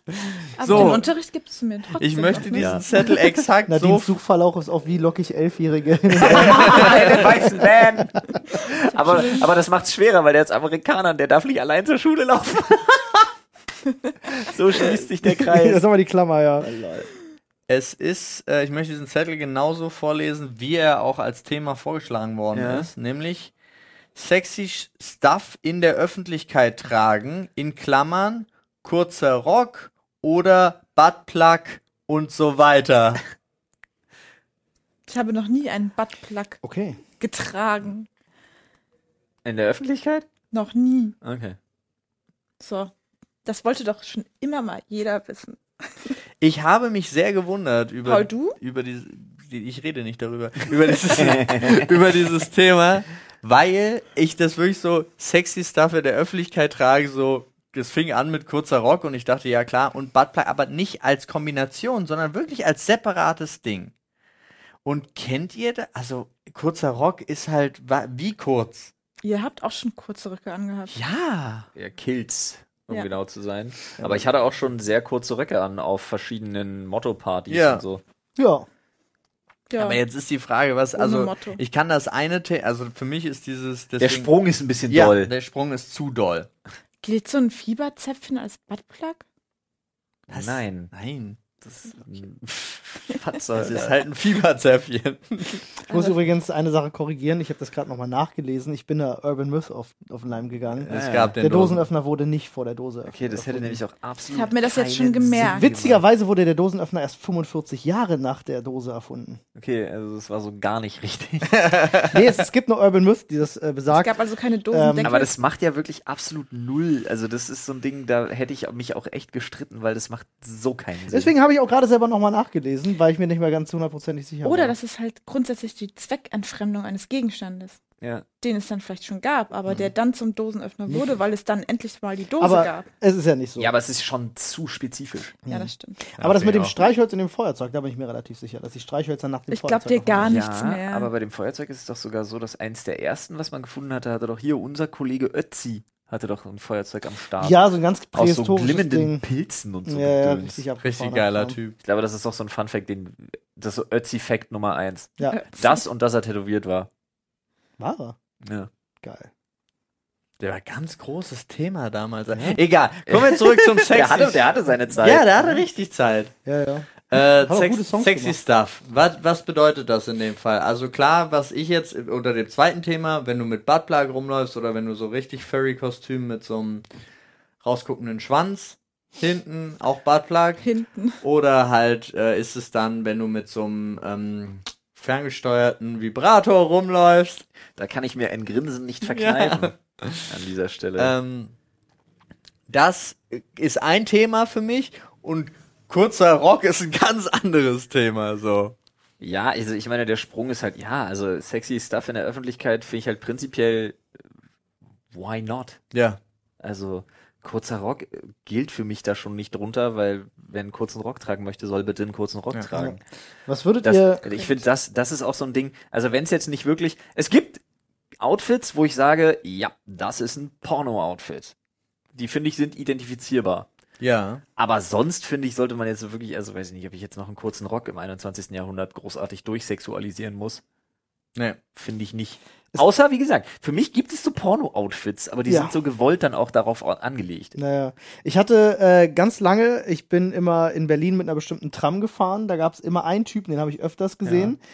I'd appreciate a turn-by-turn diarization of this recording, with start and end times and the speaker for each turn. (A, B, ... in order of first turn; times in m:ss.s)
0:00.5-0:03.1 A
0:00.6-0:01.1 B
0:02.0-0:04.1 B
0:02.5-0:02.8 C
0:03.7-0:07.5 D
0:06.2-0:13.2 C
0:06.6-0:07.1 B
0:14.3-0:15.8 C
0:15.2-0:16.7 D
0:16.6-0:17.1 C
0:17.7-0:23.5 B
0:22.5-0:22.9 C
0:24.1-0:33.2 B
0:35.1-0:36.6 A
0:36.6-0:37.0 D
0:37.2-0:38.1 A
0:39.4-0:40.2 C
0:40.5-0:41.2 A
0:41.2-0:41.6 C
0:42.6-0:42.9 A
0:43.4-0:46.2 A
0:46.4-1:03.9 B
0:48.0-0:48.6 A
0:51.2-0:51.8 C
1:04.8-1:08.9 B
1:09.2-1:11.0 A
1:10.9-1:11.7 B
1:11.7-1:18.0 C
1:14.0-1:14.2 B
1:17.5-1:17.8 B
1:18.4-1:18.6 D
1:19.7-1:20.0 A
1:19.8-1:24.3 B
1:21.0-1:21.6 A
1:24.0-1:25.3 C
1:24.9-1:26.5 B
1:27.0-1:29.2 A
1:30.3-1:31.4 B
1:30.3-1:30.9 C
1:31.6-1:34.0 C
1:33.5-1:35.7 B
1:35.9-1:36.2 A
1:35.9-1:43.8 D
1:40.8-1:41.9 B
1:40.9-1:41.4 C
1:43.0-1:46.0 C
1:44.3-1:45.7 A
1:45.4-1:49.4 D
1:49.5-1:52.0 C
1:51.5-1:52.1 B
1:52.1-1:54.2 D
1:53.9-1:55.3 A
1:54.7-1:55.1 D
1:55.0-2:01.3 C
2:01.1-2:04.7 D
2:04.4-2:07.8 A
2:08.4-2:12.9 A
2:10.9-2:11.2 D
2:12.4-2:13.7 D
2:13.6-2:15.4 C
2:15.4-2:20.4 D
2:15.5-2:16.0 A
2:16.2-2:16.7 B
2:16.2-2:16.7 C
2:19.5-2:21.1 A
2:20.2-2:27.6 C
2:27.4-2:29.2 D
2:28.1-2:30.6 C
2:29.9-2:31.6 D
2:30.8-2:31.8 B
2:31.8-2:36.9 C
2:35.2-2:35.8 A
2:37.8-2:38.2 D
2:38.4-2:38.7 C
2:39.0-2:39.3 D
2:40.4-2:46.3 B
2:43.1-2:45.4 C
2:46.4-2:48.4 D
2:47.1-2:56.8 B
2:57.6-3:00.6 B
3:00.6-3:01.2 A
3:01.2-3:07.4 B
3:07.8-3:11.1 C
3:09.0-3:10.3 B
3:11.0-3:11.5 B
3:12.7-3:18.8 B
3:19.2-3:24.0 C
3:25.1-3:25.8 C
3:25.9-3:26.2 B
3:26.6-3:33.0 C
3:33.5-3:34.5 D
3:33.8-3:37.6 C
3:38.2-3:41.5 C
3:42.1-3:43.7 C
3:44.0-3:44.4 B
3:44.6-3:50.6 C
3:51.7-3:57.6 C
3:55.5-3:55.7 D
3:57.6-4:04.6 D
4:04.2-4:04.5 C